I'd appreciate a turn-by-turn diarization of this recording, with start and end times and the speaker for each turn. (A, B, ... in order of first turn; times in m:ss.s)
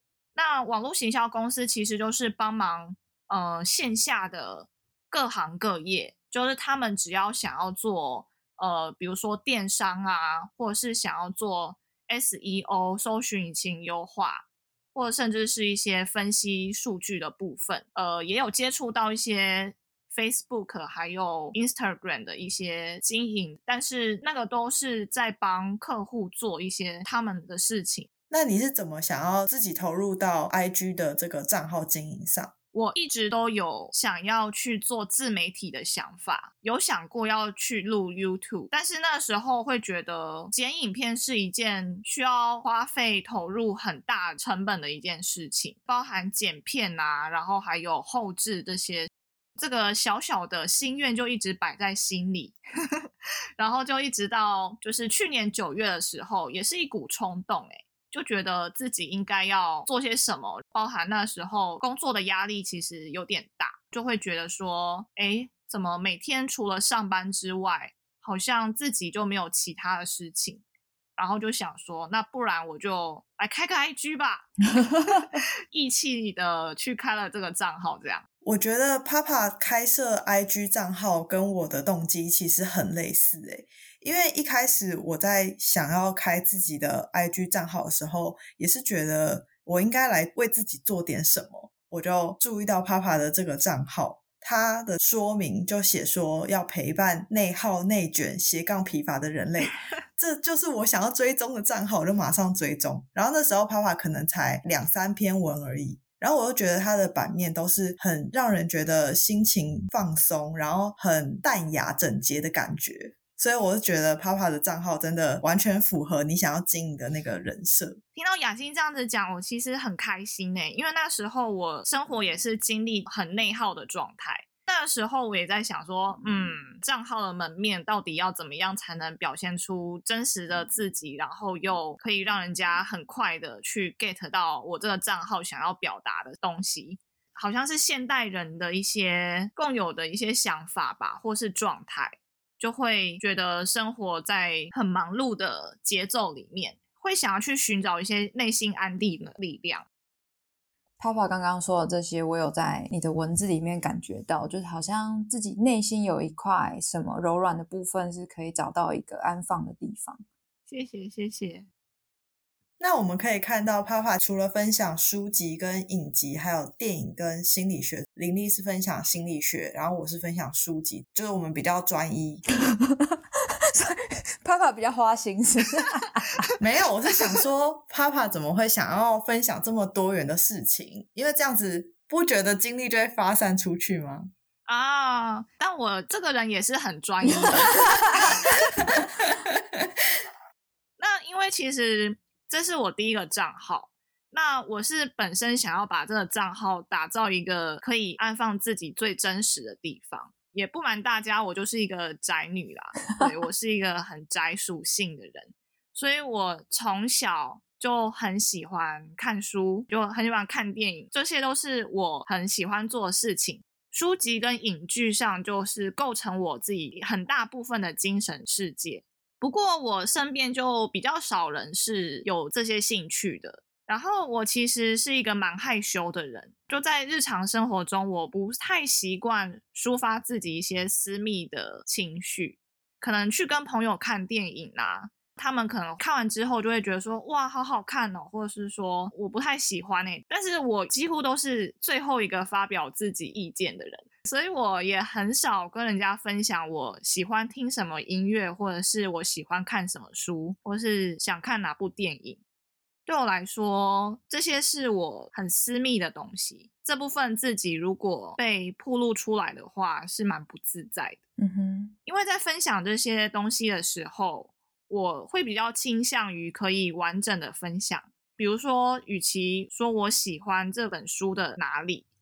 0:00.3-0:28.1 A
0:28.3-0:32.5 B
0:32.7-0:52.6 A
0:53.6-1:10.6 A
1:11.2-1:14.5 A
1:14.8-1:15.2 C
1:15.1-1:18.2 A
1:18.4-1:58.0 B
1:58.1-2:29.8 A
2:31.0-2:40.2 C
2:40.7-2:41.7 A
2:42.8-2:52.4 B
2:52.8-2:53.2 C
2:53.7-2:56.4 C
2:56.6-3:04.3 B
3:04.7-3:08.5 A
3:11.0-4:12.4 A
4:13.0-4:21.2 A
4:21.4-4:21.9 C
4:22.0-4:32.0 A